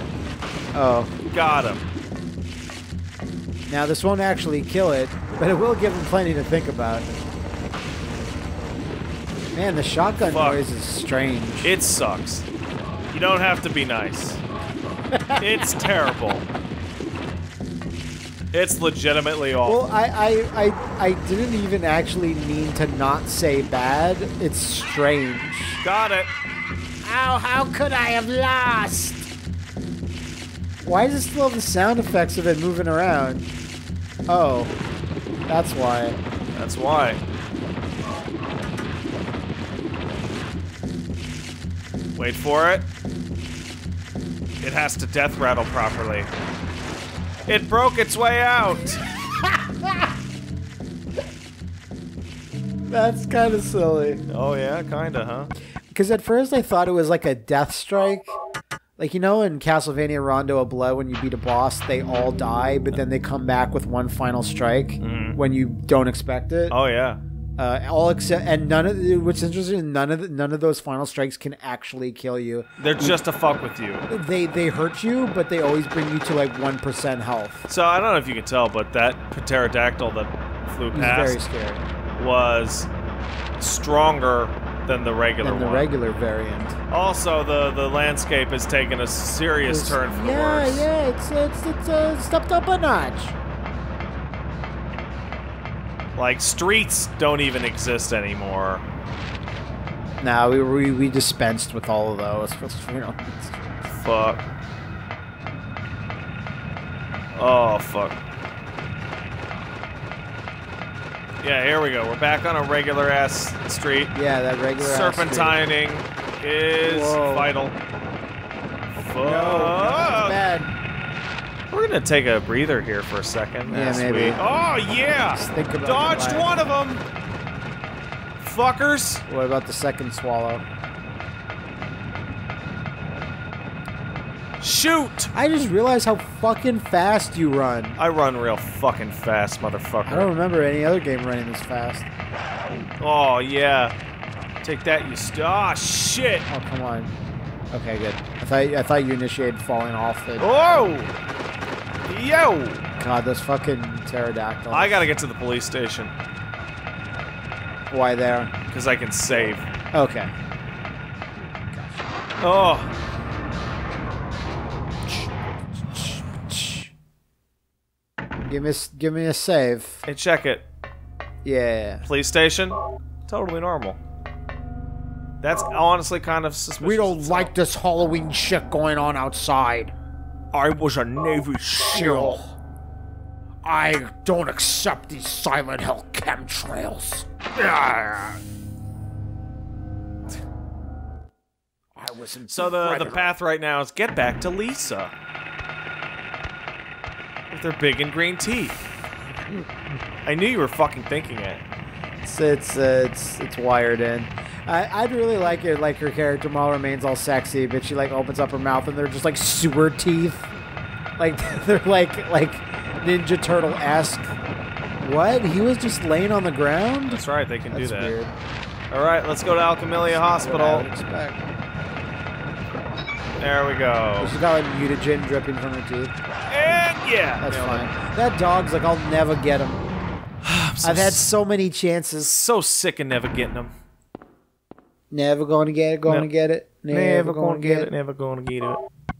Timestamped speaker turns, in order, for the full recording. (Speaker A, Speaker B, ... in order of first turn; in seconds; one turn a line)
Speaker A: 0.7-1.1
Speaker B: 1.3-1.8
Speaker A: 3.7-7.1
Speaker A: 9.5-11.7
Speaker B: 10.3-10.6
Speaker B: 11.6-12.5
Speaker B: 13.1-14.4
Speaker A: 15.1-15.9
Speaker B: 15.4-16.4
Speaker B: 18.5-19.8
Speaker A: 19.6-25.8
Speaker B: 25.8-26.3
Speaker A: 27.0-29.3
Speaker A: 30.8-33.5
Speaker A: 34.3-34.8
Speaker A: 35.5-36.2
Speaker B: 36.5-37.2
Speaker B: 42.1-42.9
Speaker B: 44.6-46.3
Speaker B: 47.5-49.0
Speaker A: 49.4-50.1
Speaker A: 52.9-54.2
Speaker B: 54.3-55.5
Speaker A: 55.9-58.4
Speaker A: 59.0-66.8
Speaker B: 65.0-65.4
Speaker B: 66.7-67.2
Speaker A: 67.6-73.2
Speaker B: 72.8-74.1
Speaker A: 74.1-77.7
Speaker B: 77.7-81.4
Speaker A: 80.9-81.8
Speaker B: 82.2-82.9
Speaker B: 83.6-85.9
Speaker A: 85.4-86.8
Speaker B: 86.9-90.9
Speaker A: 89.7-93.3
Speaker B: 96.2-98.8
Speaker A: 100.2-104.0
Speaker B: 104.0-104.4
Speaker B: 107.3-108.2
Speaker B: 111.4-114.1
Speaker A: 114.1-115.6
Speaker B: 114.8-117.8
Speaker A: 116.8-117.5
Speaker B: 118.9-120.4
Speaker A: 119.2-120.8
Speaker B: 121.7-127.0
Speaker A: 123.7-124.4
Speaker A: 125.3-126.5
Speaker B: 128.4-129.2
Speaker A: 129.3-130.6
Speaker B: 134.6-135.3
Speaker A: 135.3-138.0
Speaker B: 138.0-140.3
Speaker A: 140.1-142.1
Speaker B: 143.0-143.9
Speaker B: 144.6-146.5
Speaker A: 146.5-147.1
Speaker A: 147.7-150.5
Speaker B: 150.4-151.1
Speaker B: 152.1-152.8
Speaker A: 153.0-155.1
Speaker B: 154.7-156.1
Speaker A: 157.9-158.5
Speaker B: 158.7-159.7
Speaker A: 159.9-160.3
Speaker A: 161.7-162.1
Speaker B: 162.4-162.9
Speaker A: 165.1-166.9
Speaker A: 168.5-170.0
Speaker B: 170.1-170.7
Speaker A: 171.4-172.1
Speaker B: 172.0-174.0
Speaker B: 175.4-177.5
Speaker A: 176.8-179.9
Speaker B: 180.5-182.4
Speaker A: 181.9-182.6
Speaker A: 183.6-188.4
Speaker A: 192.0-193.3
Speaker B: 192.5-195.1
Speaker B: 197.5-198.8
Speaker B: 200.2-201.6
Speaker A: 202.2-210.5
Speaker A: 211.2-214.3
Speaker A: 215.0-218.3
Speaker B: 217.1-218.1
Speaker B: 218.9-220.9
Speaker A: 220.1-221.5
Speaker B: 223.4-224.3
Speaker A: 224.2-226.2
Speaker B: 226.5-227.9
Speaker A: 227.4-229.8
Speaker B: 230.4-231.3
Speaker A: 230.8-232.4
Speaker B: 232.2-233.7
Speaker A: 235.1-237.9
Speaker B: 236.9-238.8